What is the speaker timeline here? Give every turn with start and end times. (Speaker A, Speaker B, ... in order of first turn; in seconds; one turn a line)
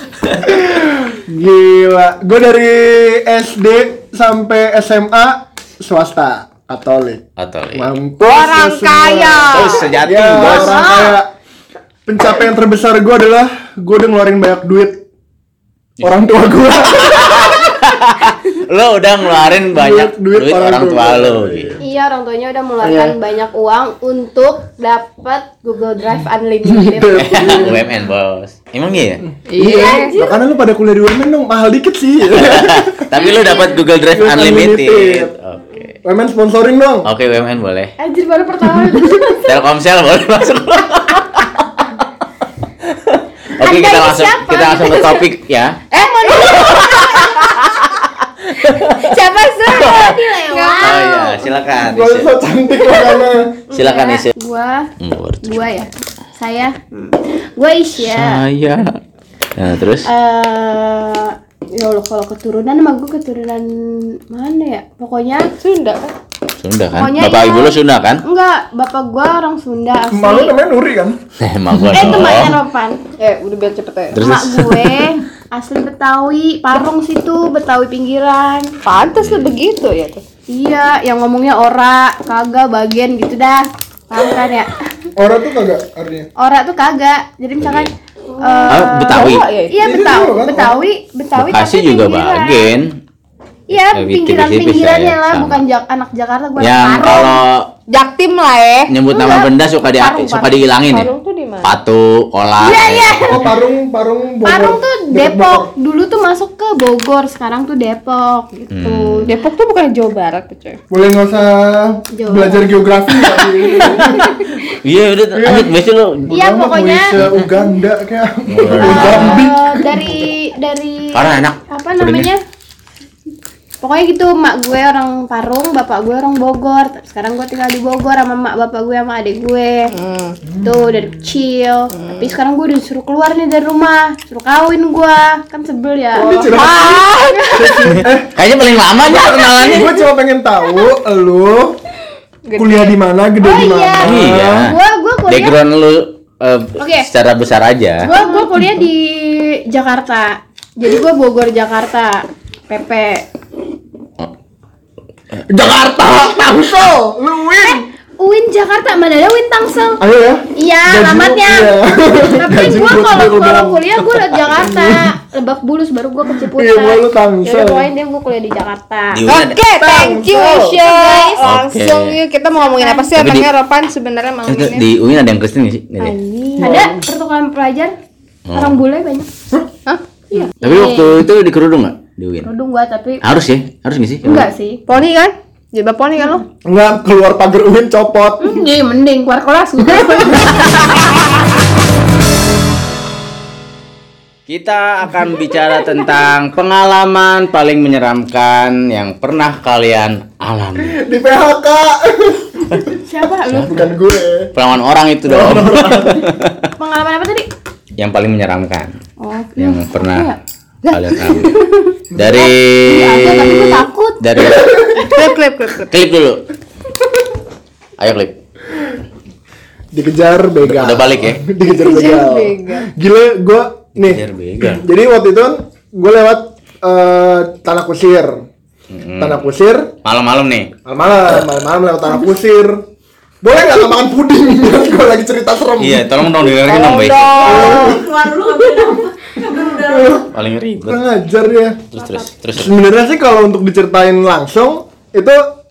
Speaker A: 0.4-7.2
Speaker B: 7.4-7.9
Speaker A: 7.7-11.3
Speaker C: 8.2-9.9
Speaker B: 9.5-10.8
Speaker D: 10.4-11.2
Speaker A: 12.1-15.0
Speaker A: 16.0-17.6
Speaker B: 16.8-21.8
Speaker A: 19.7-21.8
Speaker D: 21.8-27.7
Speaker A: 22.8-23.1
Speaker A: 26.6-27.9
Speaker B: 27.2-29.2
Speaker C: 29.5-30.1
Speaker A: 29.5-33.3
Speaker D: 29.6-30.4
Speaker B: 32.3-36.0
Speaker D: 33.2-33.7
Speaker A: 34.1-35.3
Speaker A: 36.0-37.1
Speaker B: 37.0-37.9
Speaker D: 38.0-39.5
Speaker B: 39.4-41.6
Speaker B: 42.8-45.8
Speaker D: 43.6-45.3
Speaker D: 45.9-47.5
Speaker C: 46.0-47.9
Speaker C: 48.6-51.4
Speaker D: 48.9-51.3
Speaker B: 50.8-52.3
Speaker A: 51.8-53.5
Speaker D: 53.7-54.9
Speaker B: 53.7-54.3
Speaker B: 55.0-55.6
Speaker D: 55.4-58.4
Speaker B: 58.0-59.0
Speaker B: 59.5-60.1
Speaker D: 60.0-65.5
Speaker C: 65.6-66.1
Speaker B: 66.6-68.2
Speaker D: 66.9-70.5
Speaker A: 70.1-71.2
Speaker B: 71.4-72.6
Speaker A: 71.7-72.2
Speaker D: 71.9-73.0
Speaker C: 73.2-74.2
Speaker B: 74.1-75.0
Speaker D: 74.2-78.7
Speaker C: 78.8-80.2
Speaker B: 79.2-79.5
Speaker D: 80.5-84.8
Speaker A: 85.2-86.3
Speaker D: 86.4-92.7
Speaker B: 87.6-87.9
Speaker C: 88.4-89.8
Speaker B: 88.7-89.5
Speaker A: 89.8-90.8
Speaker B: 91.3-92.9
Speaker D: 93.7-97.4
Speaker B: 93.8-95.6
Speaker B: 96.6-97.6
Speaker C: 97.9-98.9
Speaker B: 98.9-101.1
Speaker D: 99.1-100.7
Speaker C: 100.9-101.7
Speaker B: 101.6-103.4
Speaker D: 102.6-103.4
Speaker A: 103.2-105.7
Speaker D: 104.4-109.3
Speaker B: 108.7-109.3
Speaker C: 109.2-110.8
Speaker A: 110.9-114.2
Speaker D: 112.2-112.7
Speaker D: 113.8-114.4
Speaker B: 114.1-116.3
Speaker A: 115.3-115.7
Speaker A: 116.2-120.1
Speaker D: 116.3-117.1
Speaker B: 117.1-117.5
Speaker B: 118.5-119.5
Speaker D: 118.7-122.4
Speaker B: 121.1-122.3
Speaker D: 123.8-129.9
Speaker C: 129.9-130.4
Speaker D: 130.6-138.0
Speaker C: 131.9-132.3
Speaker A: 136.1-138.3
Speaker C: 136.2-138.0
Speaker B: 137.9-139.9
Speaker A: 139.6-141.8
Speaker C: 142.5-142.9
Speaker A: 142.6-144.7
Speaker D: 143.4-145.6
Speaker B: 144.0-144.8
Speaker B: 145.3-148.1
Speaker D: 146.8-147.1
Speaker D: 148.0-153.2
Speaker C: 148.1-148.5
Speaker A: 155.5-157.8
Speaker D: 157.6-160.0
Speaker A: 160.0-165.1
Speaker D: 160.6-169.2
Speaker A: 166.3-167.9
Speaker B: 169.1-169.6
Speaker C: 169.3-174.8
Speaker A: 169.8-170.8
Speaker D: 170.3-171.4
Speaker B: 171.4-172.2
Speaker D: 172.6-173.1
Speaker B: 173.1-173.5
Speaker B: 174.5-176.2
Speaker C: 176.0-176.8
Speaker A: 176.6-177.0
Speaker D: 176.6-177.9
Speaker B: 178.5-178.8
Speaker D: 178.5-179.3
Speaker C: 179.8-180.5
Speaker D: 180.3-181.2
Speaker B: 180.6-182.5
Speaker D: 182.4-183.2
Speaker B: 183.2-184.5
Speaker D: 184.2-184.8
Speaker C: 184.9-186.4
Speaker A: 186.6-188.6
Speaker D: 188.4-191.1
Speaker C: 190.0-191.0
Speaker B: 194.5-201.0
Speaker A: 200.8-202.9
Speaker D: 202.8-203.8
Speaker A: 203.5-204.5
Speaker B: 204.5-206.7
Speaker A: 205.2-206.3
Speaker D: 206.8-207.5
Speaker B: 208.0-208.9
Speaker D: 209.2-210.4
Speaker B: 209.6-210.3
Speaker C: 210.9-211.5
Speaker B: 210.9-211.5
Speaker A: 212.1-212.4
Speaker B: 212.1-215.0
Speaker D: 212.3-214.2
Speaker A: 214.5-215.1
Speaker C: 214.9-215.9
Speaker B: 215.9-216.4
Speaker B: 218.0-218.4
Speaker A: 219.9-228.4
Speaker B: 220.6-221.4
Speaker C: 221.8-222.9
Speaker B: 224.0-224.8
Speaker B: 228.9-229.4
Speaker A: 229.2-229.9
Speaker B: 230.0-230.7
Speaker A: 230.8-232.8
Speaker A: 233.4-236.7
Speaker B: 235.8-237.7
Speaker C: 236.7-238.1
Speaker D: 237.3-240.2
Speaker A: 237.4-238.9
Speaker A: 239.5-240.3
Speaker B: 240.3-241.0
Speaker A: 240.8-241.9
Speaker B: 241.9-242.7
Speaker A: 242.6-245.4